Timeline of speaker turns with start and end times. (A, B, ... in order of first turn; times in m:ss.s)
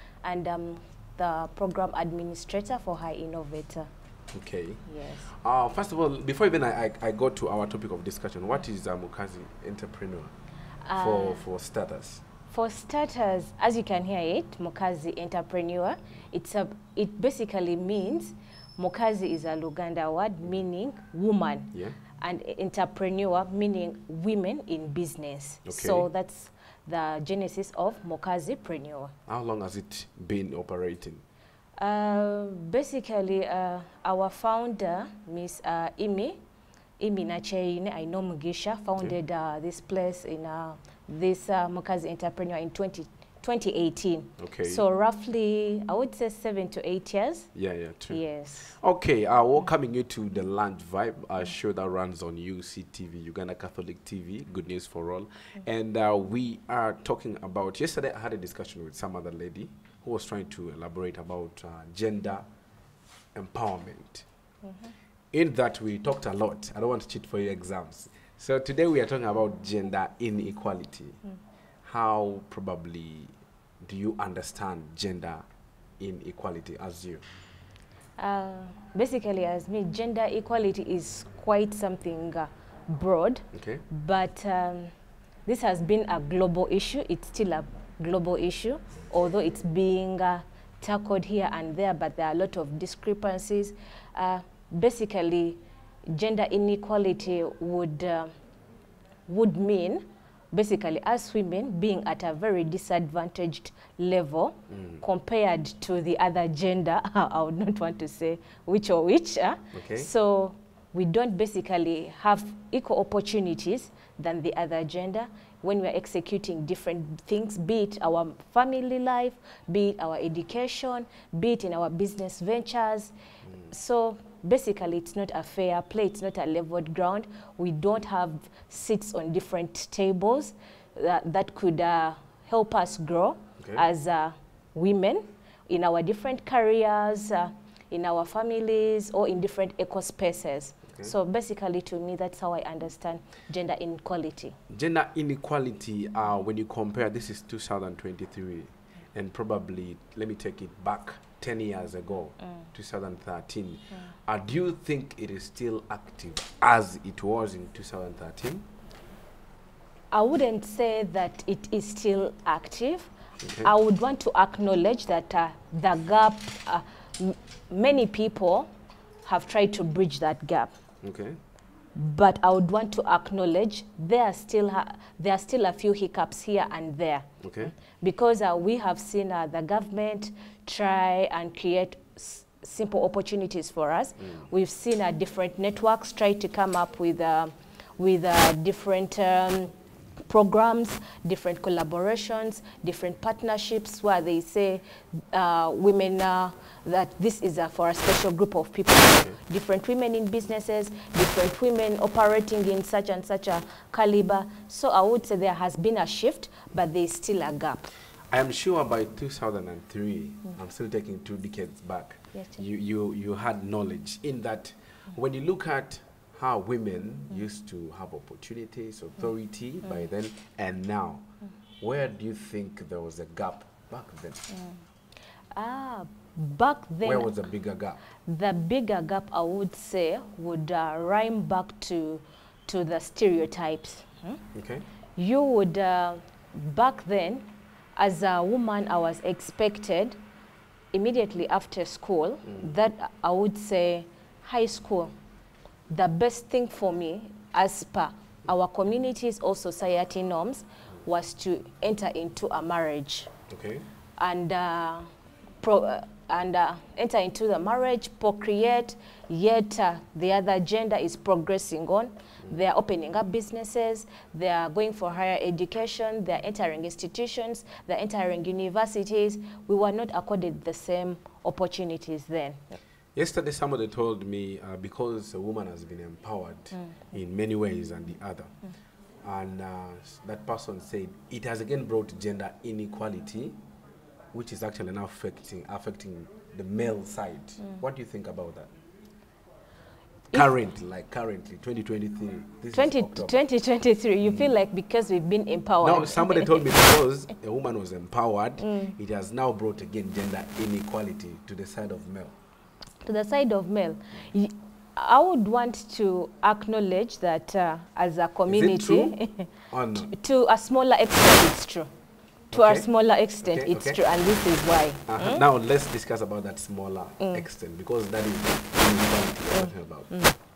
0:00.2-0:03.9 A
0:04.3-0:10.3 B
0:04.9-0:05.3 A
0:10.8-0:11.4 A
0:11.0-0:12.2 B
0:12.5-0:29.1 A
0:25.7-0:26.1 B
0:29.3-0:31.2 B
0:31.8-0:36.4 A
0:37.0-0:47.5 A
0:44.4-0:44.8 B
0:47.6-0:48.2 B
0:48.1-0:48.8 A
0:48.8-1:02.4 B
1:03.4-1:04.3 B
1:05.3-1:11.2 B
1:11.8-1:15.4 B
1:16.0-1:17.2 B
1:18.2-1:24.9 A
1:23.5-1:23.8 B
1:25.5-1:38.3 A
1:39.3-2:03.1 A
1:44.7-1:45.0 B
1:49.7-1:50.1 B
2:03.7-2:24.6 A
2:24.7-2:38.7 B
2:40.1-2:43.1 A
2:43.4-2:43.7 B
2:43.6-2:48.7 A
2:49.2-2:50.7 A
2:51.0-2:51.4 B
2:52.0-2:57.3 A
2:57.4-2:57.8 B
2:58.0-3:09.7 A
3:10.3-3:27.9 A
3:28.3-3:41.2 B
3:41.8-3:44.5 B
3:44.5-3:44.8 A
3:45.5-3:47.3 A
3:47.0-3:48.0 B
3:48.3-3:54.4 A
3:54.5-3:54.8 B
3:55.2-4:00.2 A
4:00.9-4:05.1 A
4:05.9-4:13.3 A
4:13.5-4:13.8 B
4:14.2-4:15.1 A
4:15.6-4:32.8 A
4:33.2-4:38.5 B
4:36.7-4:37.0 A
4:39.2-4:43.6 B
4:44.3-4:48.7 B
4:50.3-4:53.3 B
4:52.7-4:56.7 A
4:54.2-4:54.5 B
4:55.8-5:02.3 B
4:58.6-4:59.0 A
5:03.0-5:09.5 A
5:08.5-5:09.2 B
5:09.7-5:10.1 B
5:10.0-5:11.9 A
5:12.5-5:12.9 B
5:12.5-5:15.4 A
5:13.4-5:14.0 B
5:15.1-5:20.2 B